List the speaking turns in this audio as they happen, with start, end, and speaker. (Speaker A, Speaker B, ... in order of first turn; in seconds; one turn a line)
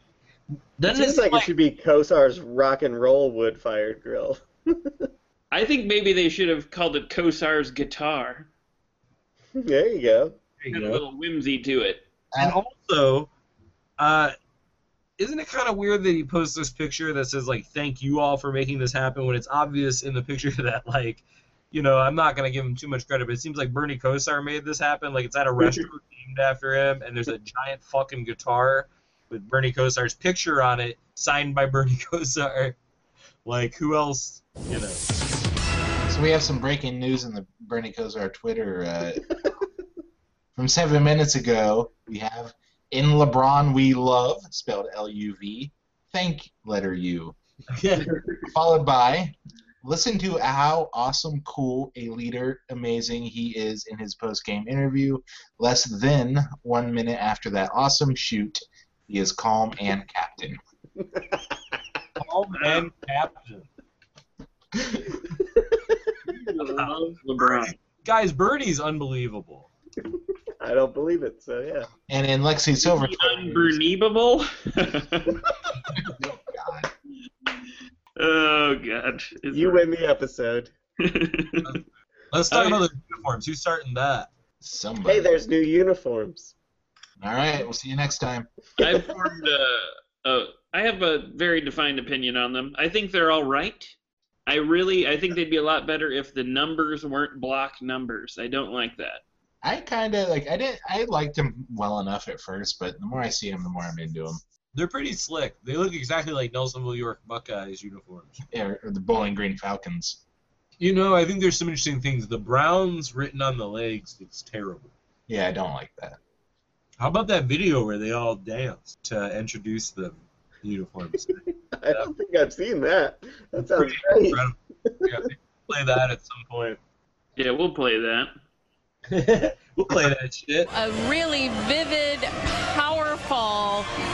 Speaker A: 0.8-1.5
Speaker B: 0.9-4.9
Speaker C: 5.5-8.5
Speaker B: 9.5-10.3
Speaker A: 10.6-11.0
Speaker C: 10.7-12.0
Speaker A: 12.4-13.3
Speaker A: 14.0-14.3
Speaker A: 15.2-32.8
Speaker A: 33.4-35.0
Speaker D: 36.1-39.2
Speaker D: 40.5-47.4
Speaker A: 47.7-48.1
Speaker D: 48.4-60.6
Speaker B: 61.0-61.2
Speaker A: 62.2-63.7
Speaker C: 66.3-67.7
Speaker A: 66.8-69.7
Speaker B: 70.6-71.9
Speaker D: 72.1-73.8
Speaker C: 72.8-75.4
Speaker D: 75.9-76.9
Speaker C: 78.2-79.8
Speaker B: 79.5-80.7
Speaker C: 81.0-81.7
Speaker A: 82.3-84.3
Speaker C: 82.5-82.8
Speaker D: 84.6-85.3
Speaker B: 85.0-86.5
Speaker D: 87.2-88.5
Speaker C: 88.8-93.9
Speaker C: 94.5-99.2
Speaker D: 99.6-104.4
Speaker A: 104.7-108.4
Speaker D: 108.5-110.2
Speaker A: 110.8-114.9
Speaker D: 115.3-116.2
Speaker A: 117.0-122.1
Speaker B: 121.7-125.2
Speaker A: 123.6-126.8
Speaker C: 127.3-128.3
Speaker A: 129.1-130.7
Speaker E: 130.7-133.9